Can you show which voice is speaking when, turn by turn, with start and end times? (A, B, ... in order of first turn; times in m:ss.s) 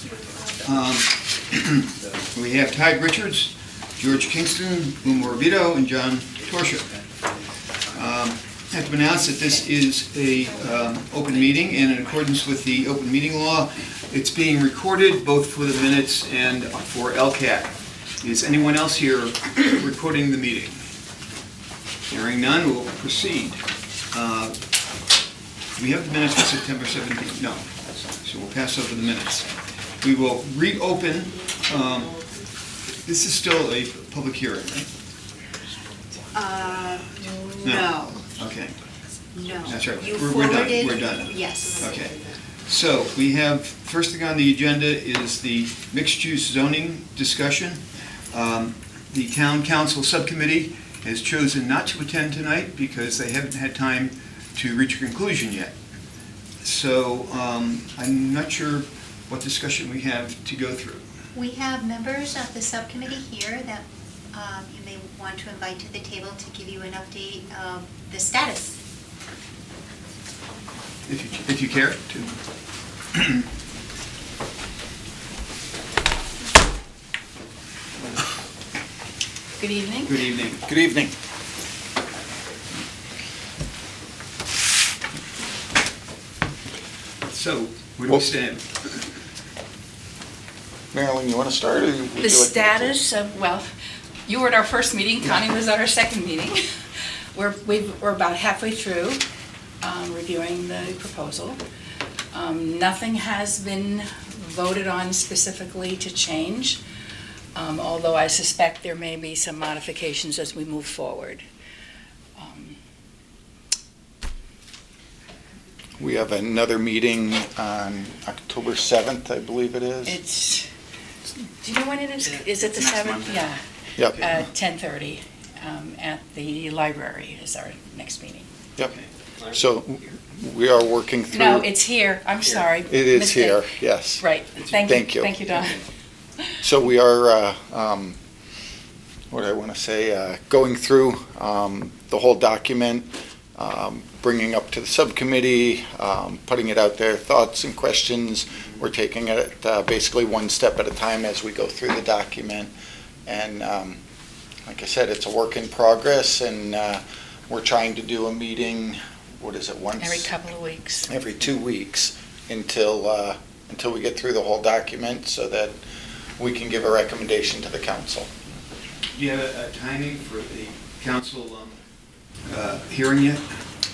0:00.6-0:06.9 A
0:07.9-0:20.8 A
0:22.1-0:24.6 A
0:25.8-0:29.5 A
0:30.0-0:32.2 A
0:33.0-0:34.9 A
0:36.3-0:38.2 B
0:37.6-0:38.8 A
0:39.3-0:41.9 B
0:39.6-0:55.7 A
0:56.6-1:01.0 A
1:01.3-1:08.8 B
1:11.0-1:12.3 A
1:13.1-1:13.4 A
1:19.6-1:20.1 C
1:20.0-1:20.6 A
1:20.6-1:21.1 D
1:27.2-1:29.0 A
1:30.9-1:33.0 D
1:32.2-1:33.7 C
1:34.2-1:36.6 C
1:37.3-1:39.2 C
1:39.8-1:41.6 C
1:42.3-1:46.8 C
1:47.5-1:51.4 C
1:52.4-1:52.8 C
1:56.0-2:00.2 D
2:00.0-2:00.7 C
2:01.6-2:08.5 C
2:04.0-2:04.3 D
2:09.4-2:11.7 D
2:11.3-2:13.6 C
2:12.8-2:15.3 D
2:14.2-2:15.8 C
2:16.6-2:18.2 D
2:19.3-2:32.7 D
2:33.2-2:34.0 D
2:34.6-2:40.3 D
2:40.0-2:41.1 C
2:41.1-2:45.8 D
2:46.4-2:48.3 D
2:49.1-2:51.8 A
2:52.5-2:53.4 A